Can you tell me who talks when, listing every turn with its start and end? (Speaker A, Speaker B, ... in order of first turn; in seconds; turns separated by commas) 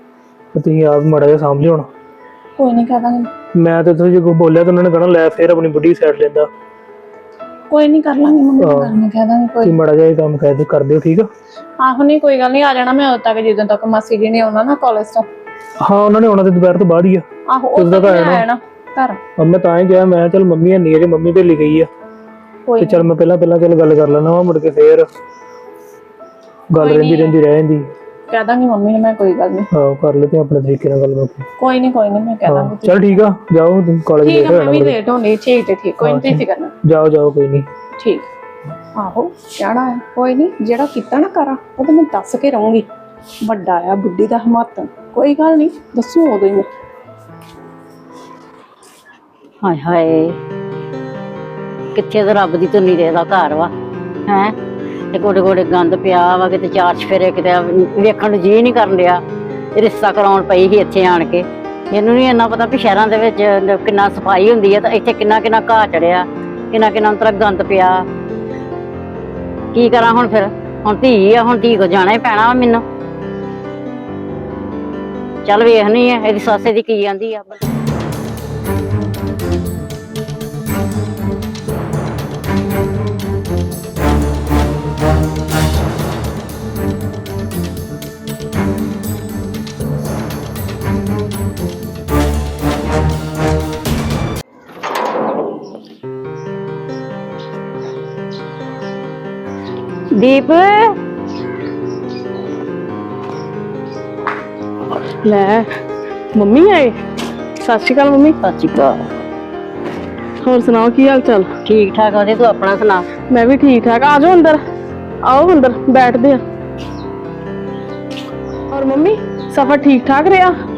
Speaker A: 0.5-1.9, Speaker B: 2.6-3.3, Speaker A: 3.6-6.5, Speaker B: 7.7-9.7, Speaker A: 8.6-8.9, Speaker A: 9.6-11.3, Speaker B: 11.8-15.3, Speaker A: 15.8-17.2, Speaker B: 17.5-19.2, Speaker A: 17.8-18.4, Speaker A: 19.4-21.9, Speaker B: 22.7-23.1, Speaker A: 22.8-25.1, Speaker A: 26.7-27.9, Speaker B: 26.8-27.3, Speaker B: 28.3-29.7, Speaker A: 29.7-31.4, Speaker B: 31.6-33.2, Speaker A: 32.4-35.0, Speaker B: 34.2-36.7, Speaker A: 36.0-37.7, Speaker B: 38.0-38.2, Speaker B: 39.0-42.9, Speaker B: 43.4-46.7, Speaker C: 49.6-50.4, Speaker C: 51.9-53.7, Speaker C: 54.3-54.5, Speaker C: 55.1-59.2, Speaker C: 59.8-68.0, Speaker C: 69.7-72.8, Speaker C: 75.4-77.5, Speaker C: 100.2-101.0, Speaker D: 105.2-105.7, Speaker D: 106.3-106.9, Speaker D: 107.6-108.3, Speaker C: 108.4-109.1, Speaker D: 110.4-111.5, Speaker C: 111.7-113.1, Speaker D: 113.3-114.6, Speaker D: 115.3-116.4, Speaker D: 118.7-120.5